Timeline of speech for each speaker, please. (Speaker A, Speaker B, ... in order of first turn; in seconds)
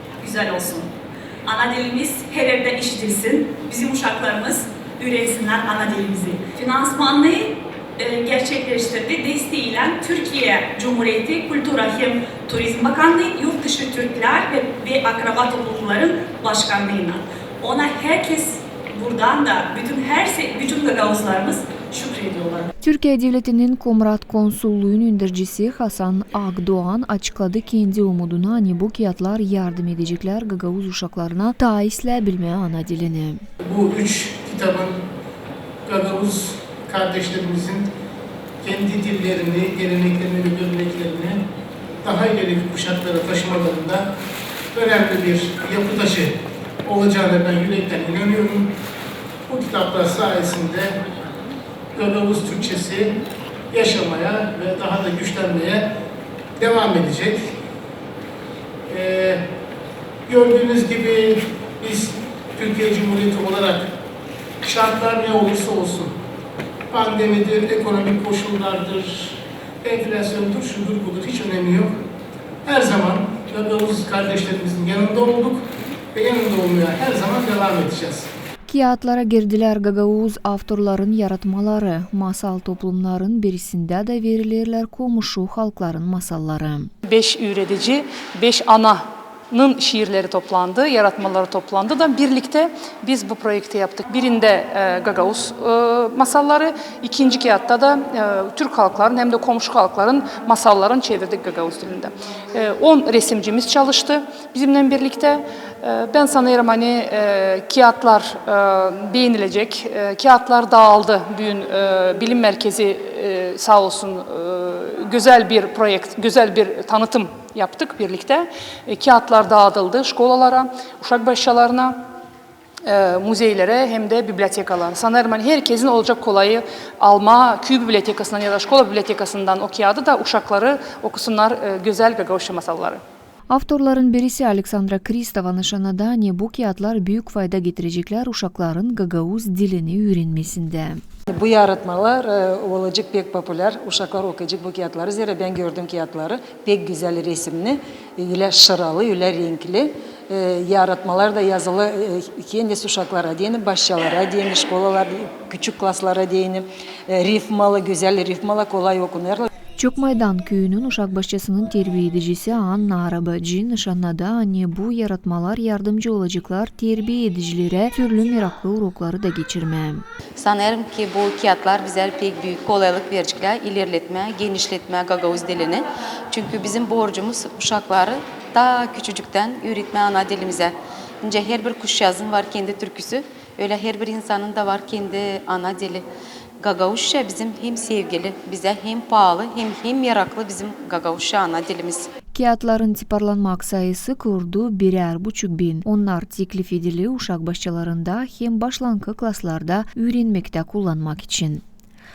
Speaker A: 0.2-0.9, 1.4-22.7
Speaker B: 22.8-33.4, 78.7-86.9, 133.5-141.0, 159.8-170.0, 192.3-201.6
Speaker C: 33.7-34.9, 35.9-37.9, 38.6-41.4, 42.0-44.0, 44.7-46.3, 46.8-48.7, 49.5-50.9, 52.0-53.1, 53.7-55.8, 56.6-57.4, 58.9-59.4, 60.3-63.9, 64.6-66.1, 66.9-71.9, 72.7-75.6, 76.1-78.3
Speaker D: 87.0-122.0, 122.8-133.0
Speaker E: 141.3-159.4
Speaker F: 170.3-186.0, 186.6-192.1